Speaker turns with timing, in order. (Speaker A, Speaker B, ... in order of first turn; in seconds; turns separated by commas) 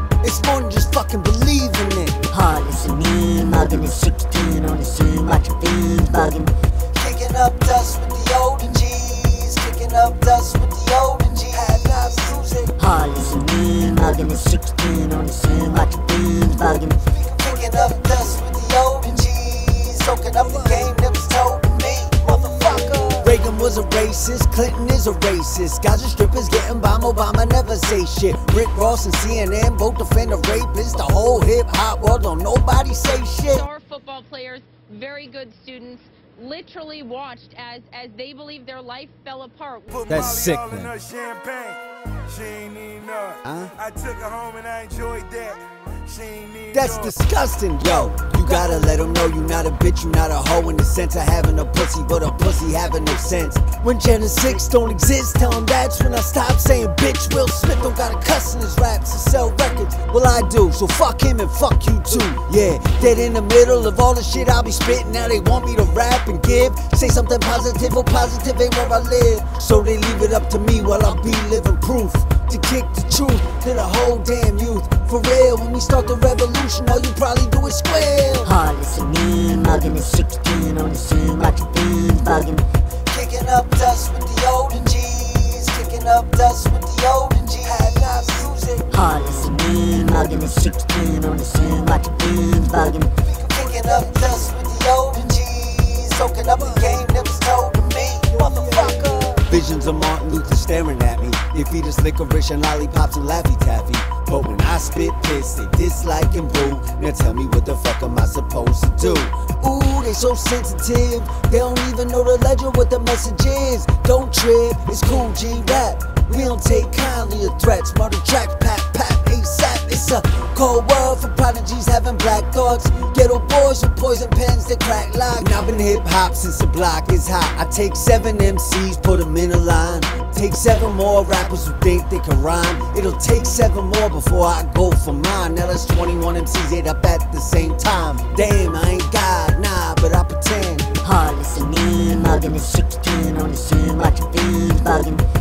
Speaker A: 0.2-2.2, Speaker B: 2.3-6.5, Speaker A: 6.9-12.8, Speaker B: 12.8-17.0, Speaker A: 17.1-33.7, Speaker C: 33.5-40.1, Speaker D: 39.9-47.2, Speaker A: 40.1-41.0, Speaker A: 43.5-43.8, Speaker A: 46.7-78.6, Speaker B: 78.5-82.7, Speaker A: 83.1-88.9, Speaker B: 88.9-93.1, Speaker A: 93.2-140.9, Speaker D: 98.6-98.9, Speaker B: 141.0-145.2